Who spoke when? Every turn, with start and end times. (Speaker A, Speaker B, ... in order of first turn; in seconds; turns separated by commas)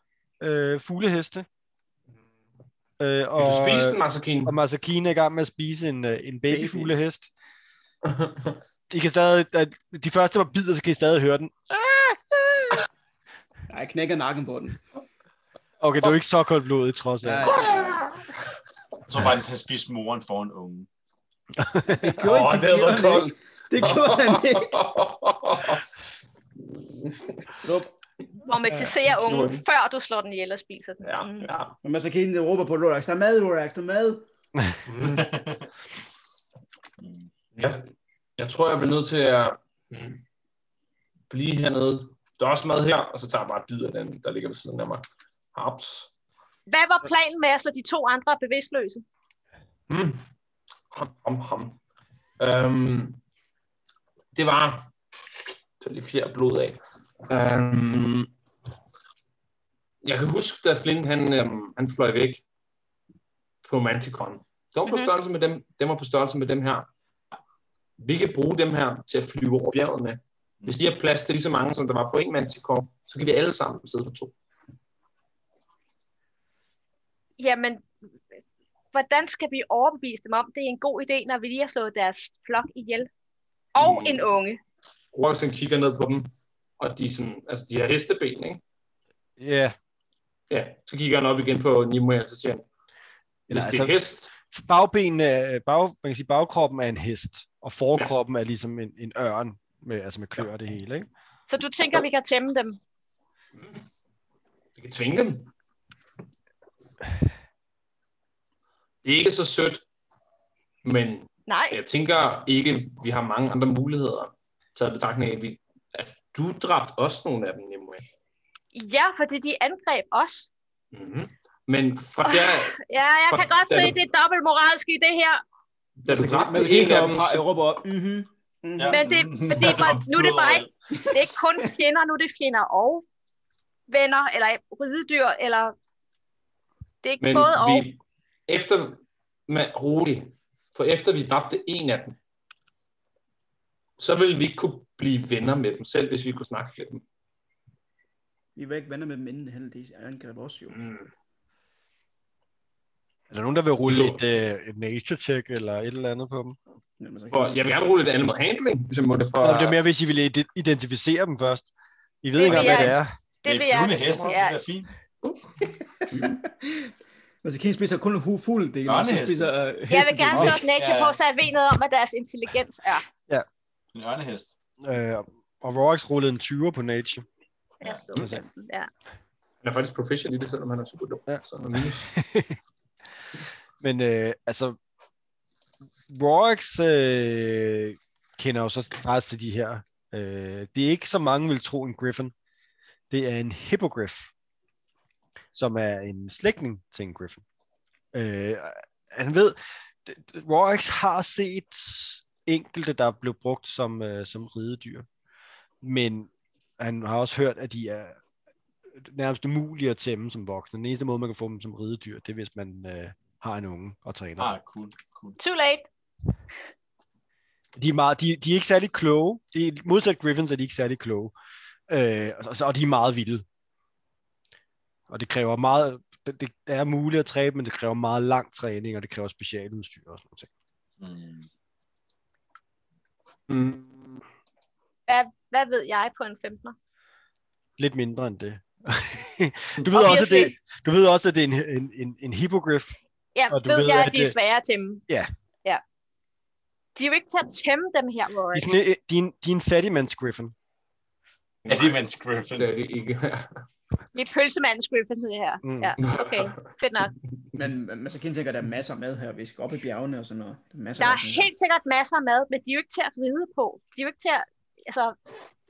Speaker A: 0.4-1.4, Speaker A: 3.0-7.3, Speaker B: 3.4-4.5, Speaker C: 6.5-6.9, Speaker B: 8.0-8.6, Speaker A: 8.9-12.8, Speaker C: 13.7-14.8, Speaker A: 15.8-17.6, Speaker C: 17.2-18.1, Speaker B: 17.4-18.2, Speaker D: 19.1-20.9, Speaker A: 21.6-22.2, Speaker C: 21.8-24.7, Speaker B: 22.2-25.9, Speaker B: 27.0-27.3, Speaker C: 27.6-27.9, Speaker E: 28.4-31.5, Speaker B: 29.2-29.6, Speaker B: 31.0-31.7, Speaker C: 31.8-34.2, Speaker B: 34.9-35.2, Speaker D: 35.0-35.7, Speaker D: 37.0-37.2, Speaker B: 37.5-37.8, Speaker B: 38.4-40.2, Speaker B: 41.3-45.0, Speaker B: 45.5-46.1, Speaker E: 46.7-49.0, Speaker B: 49.9-50.2, Speaker B: 50.9-51.8, Speaker B: 52.4-53.2, Speaker B: 54.3-54.9, Speaker B: 55.8-58.3, Speaker B: 60.0-62.4, Speaker B: 63.6-66.9, Speaker E: 64.9-65.1, Speaker B: 68.0-74.3, Speaker E: 77.4-77.9, Speaker E: 78.9-83.1, Speaker E: 83.7-84.6, Speaker B: 83.8-84.3, Speaker B: 85.1-88.6, Speaker A: 89.4-89.7, Speaker B: 90.5-92.6, Speaker B: 93.5-94.3, Speaker A: 93.5-101.1, Speaker E: 101.5-102.8, Speaker B: 104.7-105.5, Speaker B: 109.0-109.8, Speaker B: 110.8-118.0, Speaker E: 111.5-111.8, Speaker E: 118.7-120.5, Speaker B: 120.9-124.0, Speaker E: 122.2-125.4, Speaker B: 126.0-127.4, Speaker C: 126.1-129.0, Speaker D: 128.8-130.7, Speaker E: 128.9-133.0, Speaker C: 131.2-131.7, Speaker E: 133.9-135.7, Speaker E: 137.0-137.9, Speaker B: 137.2-142.2, Speaker B: 144.0-147.0, Speaker C: 148.6-150.7, Speaker B: 150.7-151.1, Speaker A: 153.3-156.6, Speaker B: 153.8-154.2, Speaker C: 157.0-157.6, Speaker B: 157.3-160.1, Speaker A: 159.4-161.7, Speaker A: 162.2-163.1, Speaker E: 162.4-164.6, Speaker D: 163.4-164.9, Speaker B: 166.0-166.4, Speaker C: 166.0-166.9, Speaker C: 167.4-170.6, Speaker D: 168.8-169.5, Speaker E: 169.9-173.0, Speaker D: 170.4-171.2, Speaker D: 173.9-174.6, Speaker A: 174.8-177.3, Speaker E: 177.8-178.9, Speaker A: 178.1-178.4, Speaker B: 179.6-182.1, Speaker A: 181.3-182.6, Speaker A: 183.8-184.8, Speaker A: 186.1-192.3, Speaker A: 193.1-194.3, Speaker A: 195.5-197.4, Speaker A: 198.1-205.1, Speaker A: 205.8-208.2, Speaker A: 209.0-214.5, Speaker D: 214.4-215.4, Speaker E: 215.4-215.9, Speaker A: 217.8-221.3, Speaker A: 221.9-223.4, Speaker A: 225.1-230.5, Speaker D: 231.0-231.5, Speaker B: 233.5-234.2, Speaker E: 235.1-236.7, Speaker A: 237.8-243.0, Speaker E: 239.9-240.6, Speaker E: 243.3-245.0, Speaker A: 243.5-244.3, Speaker E: 246.9-248.7, Speaker A: 248.5-250.5, Speaker B: 251.6-252.0, Speaker D: 251.7-252.7, Speaker B: 252.6-253.6, Speaker E: 254.1-257.1, Speaker A: 255.6-255.9, Speaker B: 256.0-256.5, Speaker C: 257.6-261.5, Speaker E: 261.0-265.2